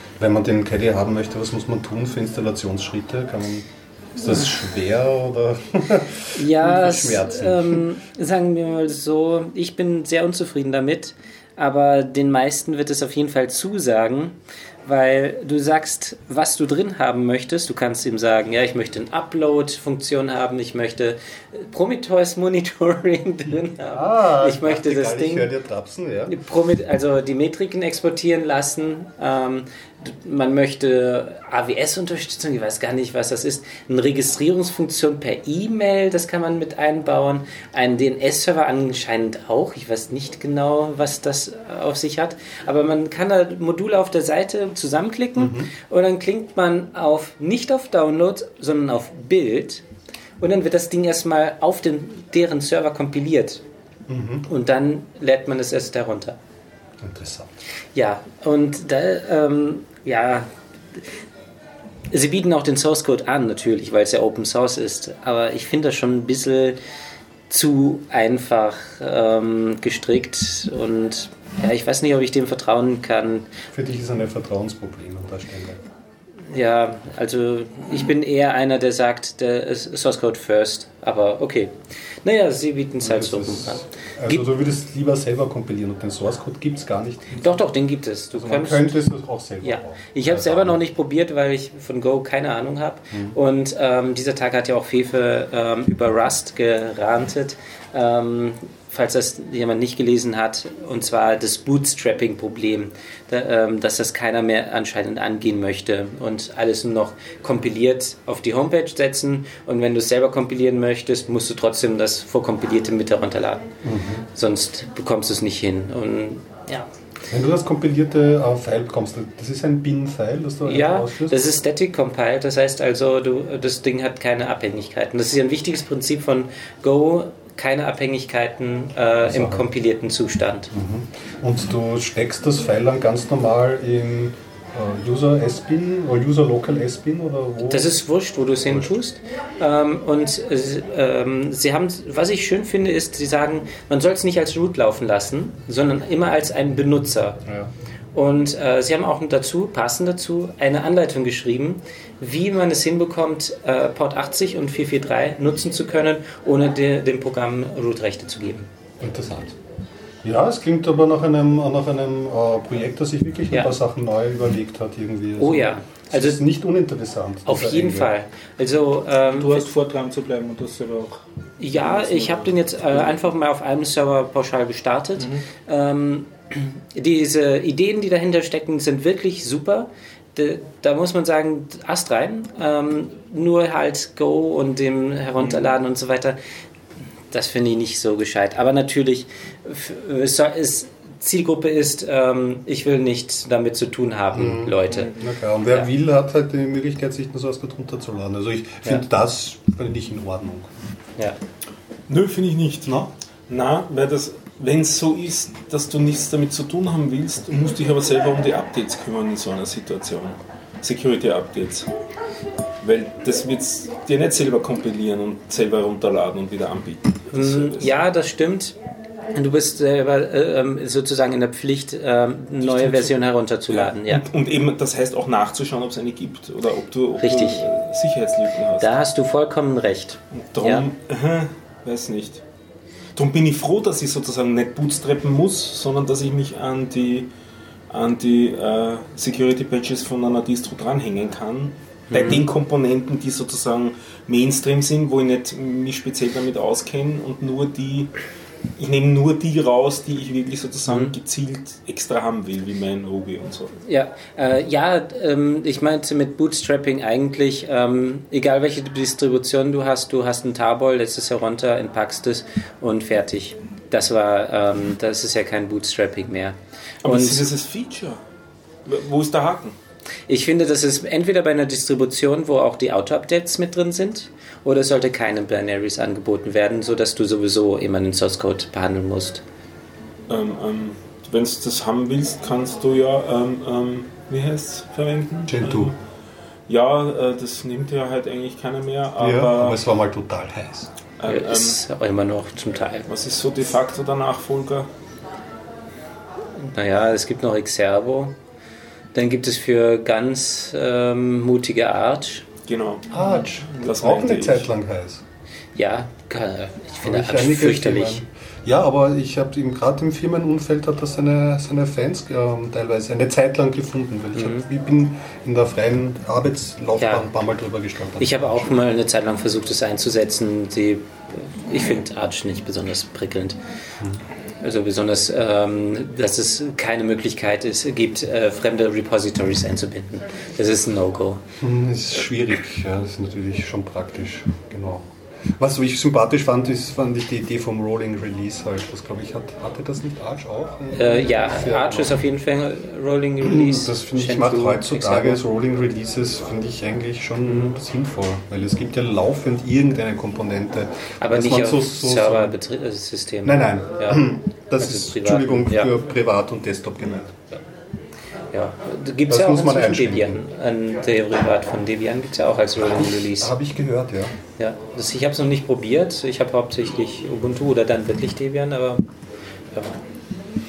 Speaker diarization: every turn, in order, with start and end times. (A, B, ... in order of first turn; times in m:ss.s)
0:00.2-0:07.8 A
0:06.3-0:25.5 B
0:23.8-0:26.4 A
0:26.3-0:49.8 B
0:45.4-0:45.7 A
0:50.4-0:53.6 B
0:54.1-0:54.4 A
0:54.5-0:56.4 B
0:57.0-0:57.6 A
0:57.9-1:01.0 B
1:02.1-1:06.8 B
1:07.5-1:13.5 B
1:13.7-1:15.8 A
1:16.5-1:24.4 B
1:23.0-1:27.5 A
1:27.4-1:28.9 B
1:28.3-1:30.8 A
1:29.6-1:53.7 B
1:53.8-1:54.2 A
1:54.3-1:56.9 B
1:57.3-2:01.5 A
2:00.6-2:10.7 B
2:09.2-2:09.7 A
2:10.7-2:17.9 A
2:17.7-2:27.4 B
2:28.1-2:38.7 B
2:39.0-2:39.6 A
2:40.2-2:48.1 A
2:45.4-2:46.4 B
2:47.4-2:49.7 B
2:49.2-2:51.2 C
2:51.6-3:06.4 B
2:51.7-2:52.5 D
2:55.2-2:55.4 C
3:07.3-3:15.2 B
3:14.3-3:20.7 A
3:22.1-3:31.9 D
3:22.8-3:23.1 A
3:32.8-3:37.9 D
3:37.3-3:38.8 B
3:39.3-3:44.3 B
3:42.6-3:43.1 D
3:43.7-3:49.0 D
3:47.2-3:47.6 B
3:48.8-3:50.8 B
3:50.4-3:52.4 D
3:53.2-3:57.3 D
3:57.9-4:08.1 D
4:02.1-4:02.4 B
4:08.8-4:13.7 D
4:10.9-4:11.1 B
4:13.8-4:27.4 B
4:27.0-4:28.2 D
4:28.8-4:29.8 D
4:30.3-4:39.4 B
4:40.3-4:46.0 D
4:45.5-4:45.9 A
4:46.7-4:49.8 D
4:49.2-4:50.9 A
4:51.2-4:51.8 D
4:51.2-4:53.1 B
4:53.1-4:54.9 D
4:56.7-4:58.4 B
4:59.1-5:02.4 B
5:02.7-5:04.7 D
5:03.1-5:05.2 A
5:05.7-5:08.2 B
5:07.0-5:18.7 A
5:14.4-5:14.6 B
5:17.0-5:17.2 B
5:18.2-5:23.6 B
5:24.6-5:31.4 B
5:31.6-5:42.2 A
5:40.9-5:45.4 B
5:43.4-5:52.6 A
5:51.2-5:54.2 B
5:53.4-5:57.3 A
5:54.8-5:55.9 B
5:57.1-5:57.6 B
5:58.5-6:03.5 B
5:59.3-6:00.4 A
6:02.8-6:04.4 A
6:04.6-6:09.1 B
6:09.7-6:10.0 B